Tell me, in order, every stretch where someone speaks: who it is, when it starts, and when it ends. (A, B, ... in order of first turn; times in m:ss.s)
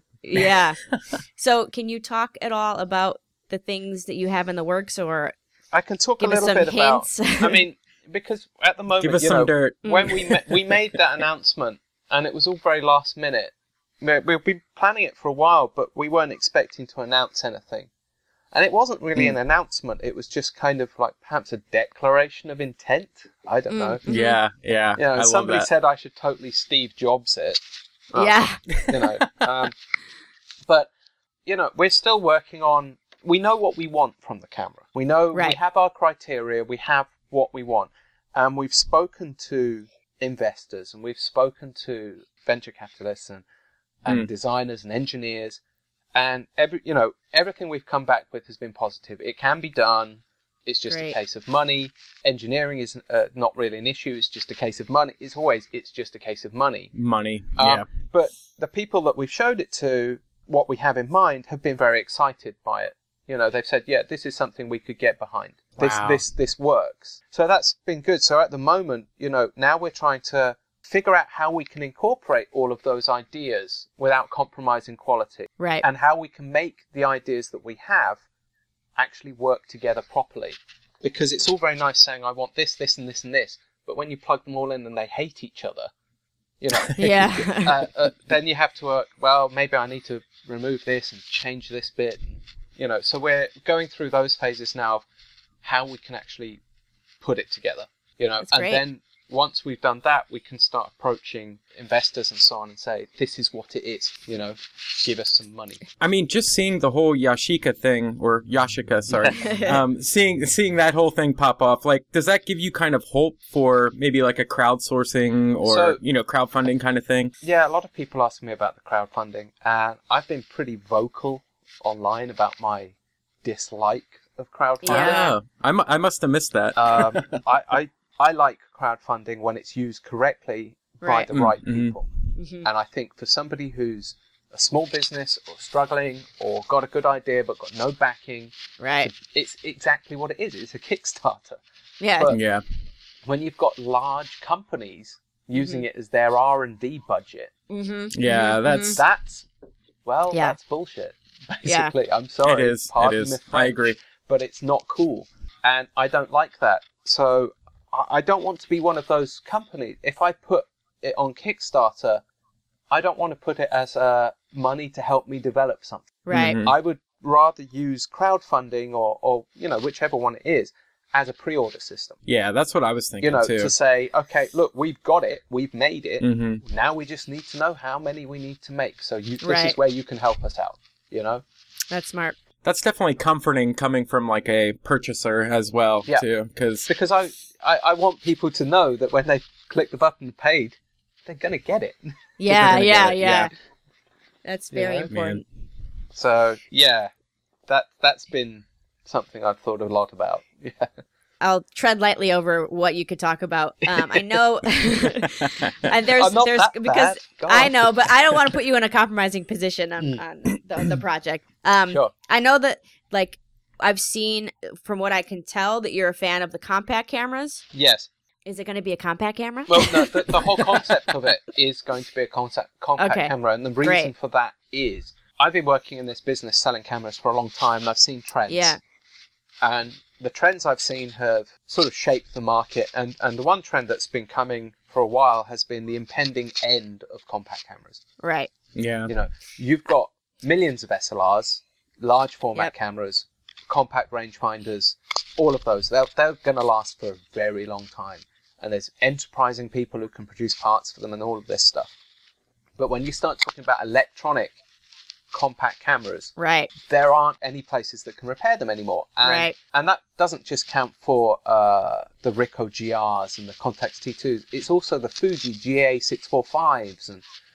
0:00.2-0:05.4 A
0:05.7-0:17.9 B
0:06.2-0:07.6 A
0:09.0-0:10.8 C
0:09.8-0:10.1 A
0:18.5-0:24.0 B
0:23.7-0:24.4 A
0:24.1-0:25.7 C
0:25.0-0:27.6 B
0:28.1-0:29.8 B
0:28.2-0:28.6 A
0:28.8-0:29.1 C
0:31.5-0:43.4 B
0:44.0-0:45.6 B
0:46.2-0:56.9 B
0:50.9-0:51.2 A
0:56.9-0:57.9 C
0:57.6-1:18.2 B
1:05.8-1:06.2 C
1:15.6-1:15.8 A
1:19.0-1:25.9 B
1:26.6-1:35.0 B
1:27.0-1:27.8 A
1:35.6-1:36.6 B
1:37.2-1:45.8 B
1:38.5-1:38.8 A
1:46.0-1:57.3 C
1:49.1-1:49.6 B
1:49.3-1:49.8 A
1:55.6-1:56.0 B
1:57.4-2:05.3 B
2:04.8-2:05.4 A
2:04.9-2:07.2 C
2:06.8-2:12.1 B
2:11.0-2:11.3 A
2:11.3-2:12.0 C
2:12.4-2:12.7 A
2:12.6-2:21.6 B
2:18.8-2:19.1 A
2:22.0-2:22.4 A
2:22.3-2:22.6 C
2:23.2-2:27.5 B
2:25.6-2:25.8 A
2:27.7-2:29.0 A
2:28.1-2:29.0 C
2:28.7-2:29.4 B
2:30.0-2:42.2 B
2:30.3-2:30.6 A
2:31.6-2:31.9 A
2:32.4-2:34.0 C
2:42.9-2:52.2 B
2:46.2-2:46.6 A
2:46.3-2:46.7 C
2:52.3-2:53.7 C
2:53.2-3:01.4 B
2:56.2-2:56.6 C
2:59.4-2:59.8 A
3:01.9-3:02.4 A
3:02.6-3:06.9 C
3:06.9-3:13.2 B
3:12.4-3:13.5 A
3:12.5-3:13.5 C
3:14.4-3:15.4 A
3:14.7-3:15.1 B
3:15.1-3:15.4 C
3:16.1-3:17.1 B
3:17.7-3:20.9 B
3:21.4-3:37.6 A
3:23.9-3:24.4 B
3:26.2-3:28.5 B
3:31.9-3:32.1 B
3:37.7-3:38.1 B
3:38.4-3:40.6 A
3:39.7-3:48.8 B
3:43.0-3:44.1 A
3:48.5-3:48.8 A
3:49.6-3:58.0 B
3:58.2-3:58.5 A
3:58.8-3:59.1 C
3:59.1-4:11.9 B
4:12.8-4:14.6 B
4:15.3-4:27.2 B
4:16.4-4:16.7 A
4:19.2-4:19.5 A